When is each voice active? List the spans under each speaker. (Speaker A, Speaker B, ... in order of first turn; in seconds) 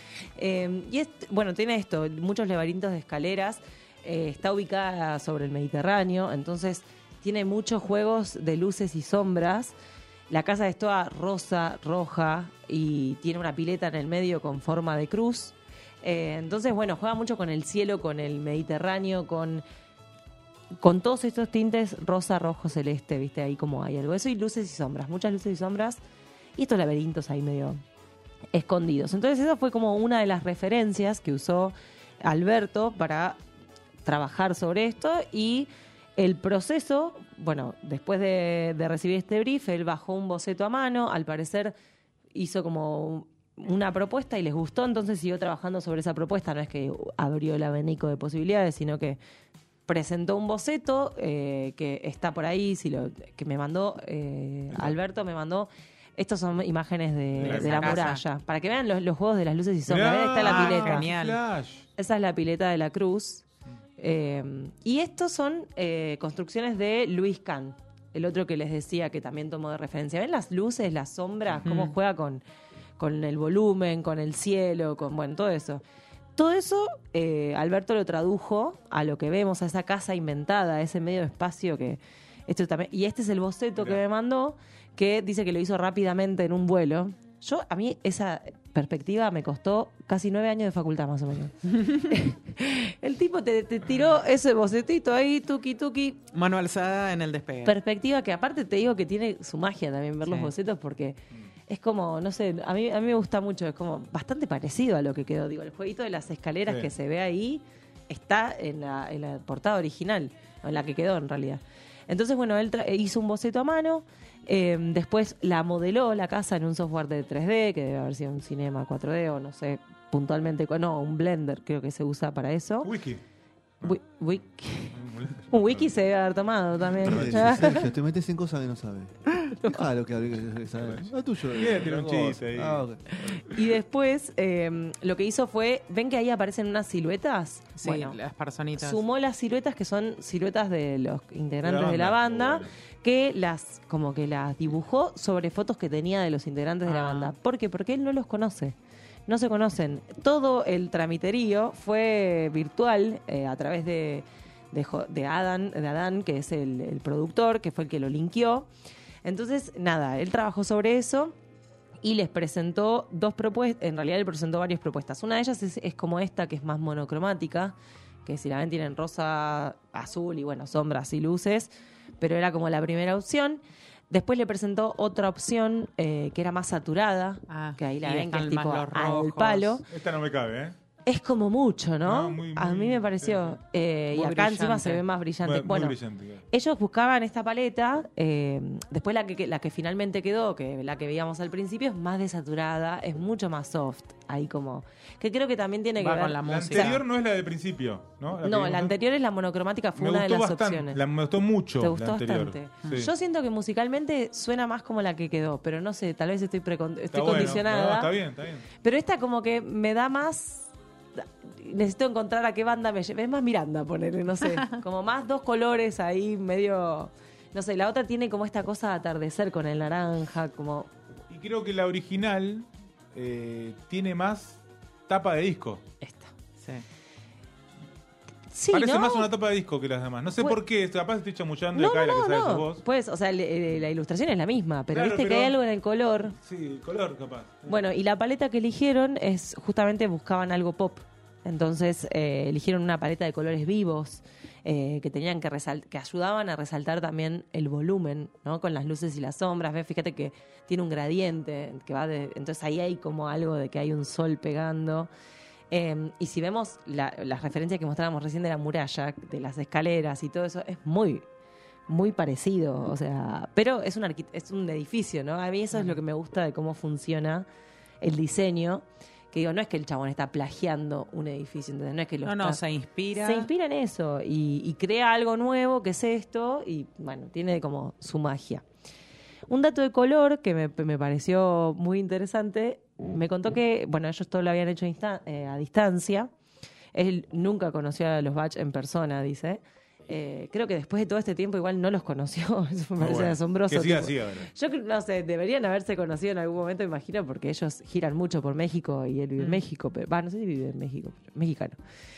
Speaker A: 0.4-9.7, 10.3-19.6, 20.8-26.0, 26.6-27.8, 28.5-33.4, 34.0-41.7, 42.3-49.2, 49.9-61.1, 62.0-63.4, 64.0-72.4, 73.0-75.8, 76.4-96.2, 97.7-122.9, 123.8-125.0, 125.5-127.9, 129.5-129.8, 133.4-138.2, 138.8-148.8, 149.3-158.7, 159.2-161.3, 162.0-179.9, 181.1-186.0, 186.5-197.0, 198.4-201.0, 201.8-208.1, 208.8-220.9, 226.0-226.3, 228.5-229.3, 231.7-236.4, 237.7-255.1, 255.7-261.2, 261.9-267.5, 268.0-272.6, 273.2-278.6, 279.5-286.3, 286.9-301.8
Speaker B: 57.4-58.1, 59.9-61.9, 83.8-84.0, 106.7-106.9, 122.8-123.2, 124.9-126.0, 127.0-127.6, 130.8-133.6, 141.6-142.7, 179.9-180.8, 182.0-183.6, 185.4-186.4, 196.4-198.9, 200.0-203.1, 207.1-208.7, 221.3-225.8, 228.7-232.8, 234.9-235.6, 236.4-237.8, 293.0-294.5
Speaker C: 57.4-58.2, 60.4-61.4, 71.7-71.9, 96.3-97.8, 100.2-100.5, 137.8-139.0, 146.9-147.3, 177.5-179.8, 184.1-185.0, 196.0-196.9, 272.2-273.5
Speaker D: 127.0-133.0